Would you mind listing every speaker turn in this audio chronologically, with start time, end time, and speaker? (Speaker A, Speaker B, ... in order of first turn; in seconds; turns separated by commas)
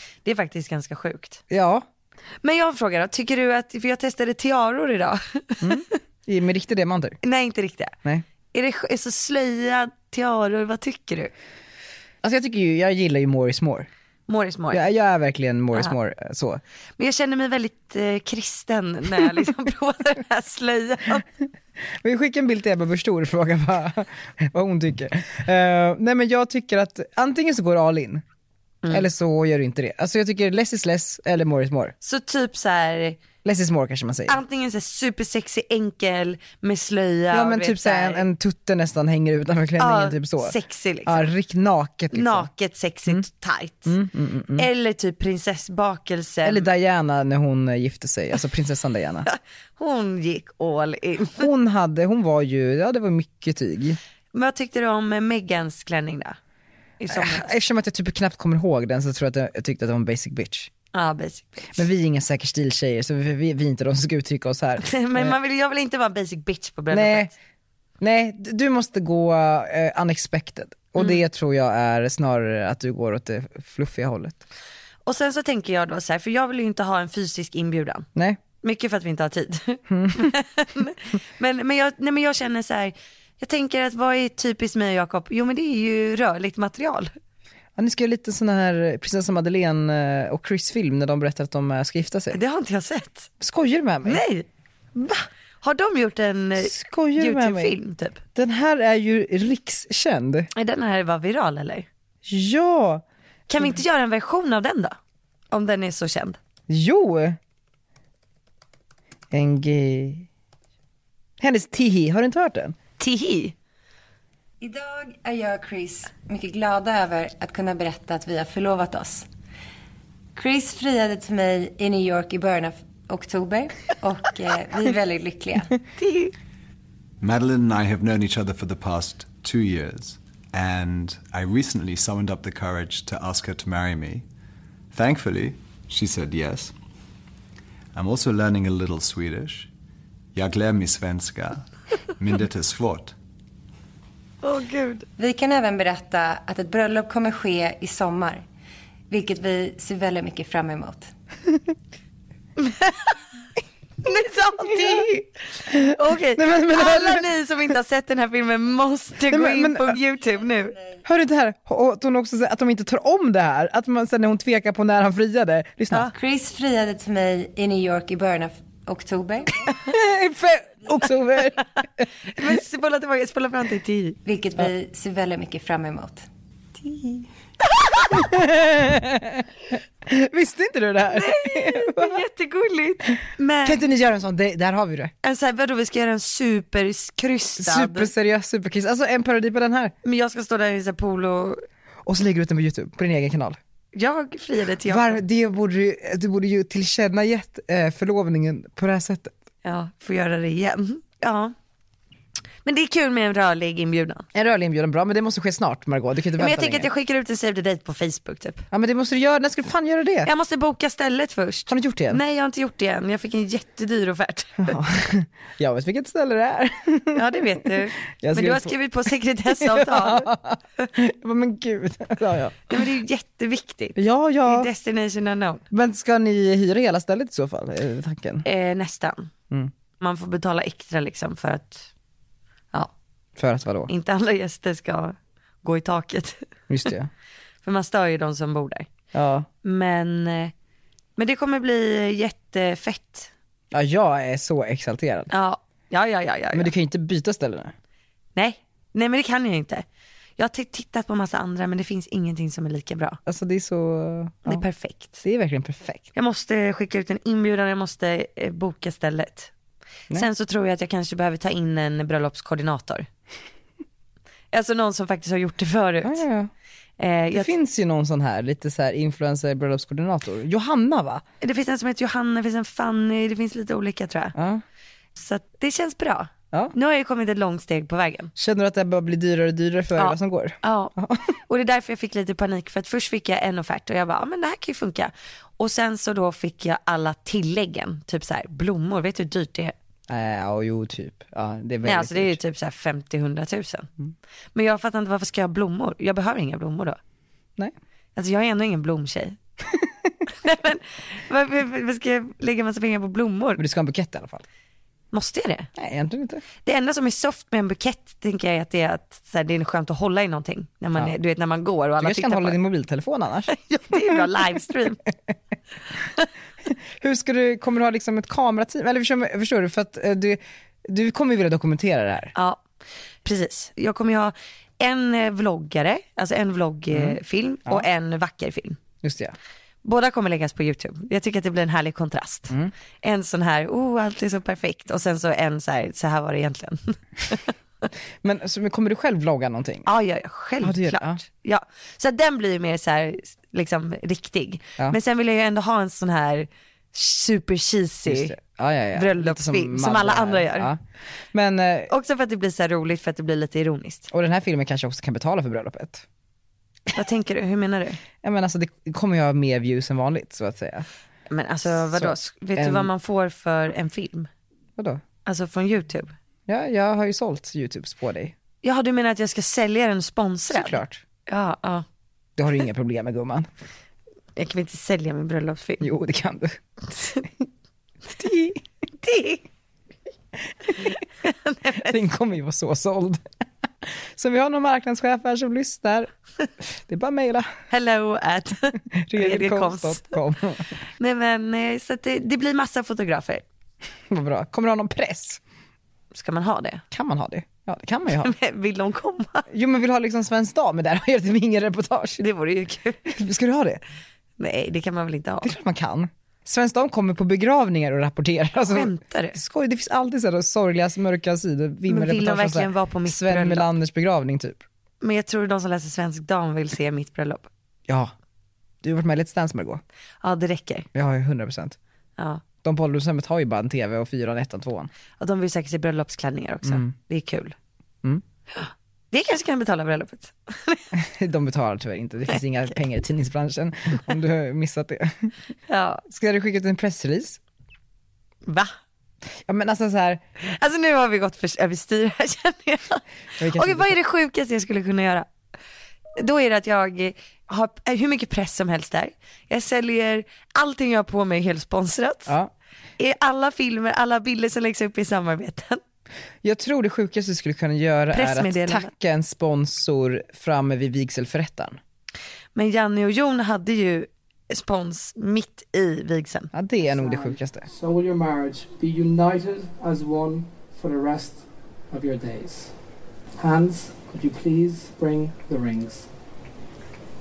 Speaker A: 0.2-1.4, Speaker B: 1.5-1.9, Speaker A: 2.4-5.8, Speaker B: 5.6-7.2, Speaker A: 7.2-8.0, Speaker A: 8.5-11.3, Speaker B: 12.2-13.9, Speaker A: 14.3-14.8, Speaker B: 14.7-16.6, Speaker A: 17.0-21.2, Speaker B: 22.0-28.2, Speaker B: 28.9-31.9, Speaker A: 32.0-33.2, Speaker B: 33.4-34.4, Speaker A: 34.3-38.3, Speaker B: 37.3-42.5, Speaker A: 39.8-41.3, Speaker A: 42.1-43.9, Speaker B: 43.9-44.7, Speaker A: 44.6-46.7, Speaker B: 46.4-49.3, Speaker A: 49.3-51.4, Speaker B: 51.4-54.0, Speaker A: 54.3-56.4, Speaker A: 57.0-57.5, Speaker B: 57.1-60.7, Speaker A: 60.9-61.8, Speaker B: 61.7-65.4, Speaker A: 64.8-67.3, Speaker B: 66.9-67.3, Speaker B: 68.0-74.4, Speaker A: 75.1-78.1, Speaker A: 78.6-87.1, Speaker B: 79.9-80.3, Speaker B: 87.8-92.4, Speaker A: 92.3-93.3, Speaker B: 93.4-94.2, Speaker A: 94.0-98.2, Speaker B: 96.6-97.7, Speaker B: 98.3-100.5, Speaker A: 100.5-101.9, Speaker B: 102.2-103.0, Speaker A: 103.5-105.0, Speaker A: 105.5-106.4, Speaker B: 106.7-107.4, Speaker B: 109.3-110.3, Speaker B: 111.4-112.8, Speaker A: 113.0-113.6, Speaker C: 114.6-119.2, Speaker C: 120.3-125.7, Speaker A: 126.0-126.3, Speaker D: 127.2-134.2, Speaker D: 134.9-136.7, Speaker D: 137.9-139.7, Speaker D: 140.3-143.1, Speaker A: 144.4-145.1, Speaker C: 145.2-148.4, Speaker C: 149.1-151.1, Speaker A: 152.6-153.2, Speaker A: 154.0-160.8, Speaker B: 156.4-157.2, Speaker B: 159.3-160.0, Speaker B: 161.1-166.1, Speaker C: 166.1-169.6, Speaker B: 169.8-171.6, Speaker A: 172.3-174.2, Speaker C: 174.2-176.2, Speaker B: 178.1-179.5, Speaker B: 180.1-182.2, Speaker A: 181.1-183.8, Speaker B: 183.6-185.1, Speaker A: 185.2-188.1, Speaker B: 187.6-189.9, Speaker A: 190.0-191.6, Speaker B: 192.1-193.6, Speaker A: 193.9-195.2, Speaker B: 194.9-199.3, Speaker A: 199.6-201.5, Speaker A: 202.6-204.2, Speaker B: 204.3-206.9, Speaker A: 206.4-208.6, Speaker B: 208.7-210.3, Speaker A: 210.2-214.8, Speaker B: 211.7-212.2, Speaker B: 214.6-218.8, Speaker A: 217.1-220.3, Speaker B: 219.5-222.8, Speaker A: 222.7-225.6, Speaker B: 223.9-224.7, Speaker B: 225.7-228.4, Speaker A: 228.4-229.3, Speaker A: 230.0-231.9, Speaker B: 233.4-233.9, Speaker A: 233.9-236.4, Speaker B: 236.7-237.1, Speaker A: 237.6-238.9, Speaker B: 239.1-239.5, Speaker A: 239.6-240.5, Speaker A: 241.2-243.3, Speaker B: 243.7-245.3, Speaker A: 245.3-246.7, Speaker B: 246.5-247.7, Speaker A: 248.4-249.8, Speaker A: 250.4-253.2, Speaker B: 253.3-254.7, Speaker A: 254.4-255.2, Speaker B: 255.2-256.1, Speaker A: 256.1-259.5, Speaker A: 260.1-263.1, Speaker A: 264.5-266.2, Speaker B: 266.0-266.5, Speaker A: 267.0-267.5, Speaker B: 267.3-271.2, Speaker A: 271.4-274.3, Speaker B: 274.3-274.6, Speaker A: 275.1-278.3, Speaker B: 278.3-281.4, Speaker A: 280.0-280.9, Speaker A: 281.5-289.7, Speaker B: 290.1-292.4, Speaker A: 291.8-293.9, Speaker A: 294.6-297.0, Speaker A: 298.1-299.4, Speaker A: 300.3-303.6, Speaker B: 303.6-304.4, Speaker A: 305.1-305.7, Speaker B: 305.8-306.4, Speaker A: 306.6-312.6, Speaker B: 312.0-314.2, Speaker A: 313.5-315.0, Speaker B: 316.6-322.3, Speaker A: 322.3-322.6, Speaker A: 323.2-328.8, Speaker B: 326.9-327.8, Speaker B: 329.0-329.3, Speaker A: 329.8-337.5, Speaker B: 338.2-339.9, Speaker A: 339.8-348.3, Speaker B: 340.6-341.2, Speaker B: 348.1-350.8, Speaker A: 348.9-350.7, Speaker B: 351.3-351.9, Speaker A: 351.9-354.1, Speaker B: 354.1-356.1, Speaker A: 356.9-358.0, Speaker B: 358.2-360.9, Speaker A: 361.3-364.3, Speaker B: 361.6-362.9, Speaker A: 365.2-366.1, Speaker B: 366.5-368.3, Speaker A: 368.6-371.8, Speaker B: 370.5-371.0, Speaker B: 372.4-373.5, Speaker A: 374.4-375.9, Speaker B: 375.8-376.6, Speaker B: 378.2-378.6, Speaker A: 379.0-379.4, Speaker A: 380.8-381.9, Speaker B: 381.8-383.2, Speaker B: 383.8-386.1, Speaker B: 386.6-387.5, Speaker A: 387.7-390.1, Speaker B: 388.9-390.6, Speaker A: 391.0-393.4, Speaker B: 394.1-395.4, Speaker A: 396.1-396.8, Speaker B: 396.9-398.3, Speaker A: 398.2-399.4, Speaker B: 399.5-402.2, Speaker A: 402.2-403.0, Speaker B: 403.1-403.8, Speaker A: 404.4-405.5, Speaker B: 405.4-414.6, Speaker A: 408.6-409.4, Speaker A: 411.9-413.7, Speaker A: 415.0-417.5, Speaker B: 417.9-418.1, Speaker B: 418.8-419.8, Speaker A: 420.2-420.9, Speaker B: 420.9-421.8, Speaker B: 422.6-424.9, Speaker A: 425.2-427.6, Speaker B: 426.6-426.9, Speaker A: 428.5-430.9, Speaker B: 430.9-435.3, Speaker A: 435.7-436.0, Speaker B: 436.1-437.4, Speaker A: 438.4-438.7, Speaker B: 439.4-440.2, Speaker A: 440.4-445.3, Speaker B: 443.4-444.0, Speaker A: 446.2-452.3, Speaker B: 452.3-452.5, Speaker A: 453.0-455.8, Speaker B: 456.4-461.8, Speaker A: 458.1-458.9, Speaker A: 462.6-466.5, Speaker B: 466.5-467.7, Speaker E: 466.9-472.7, Speaker E: 473.4-476.1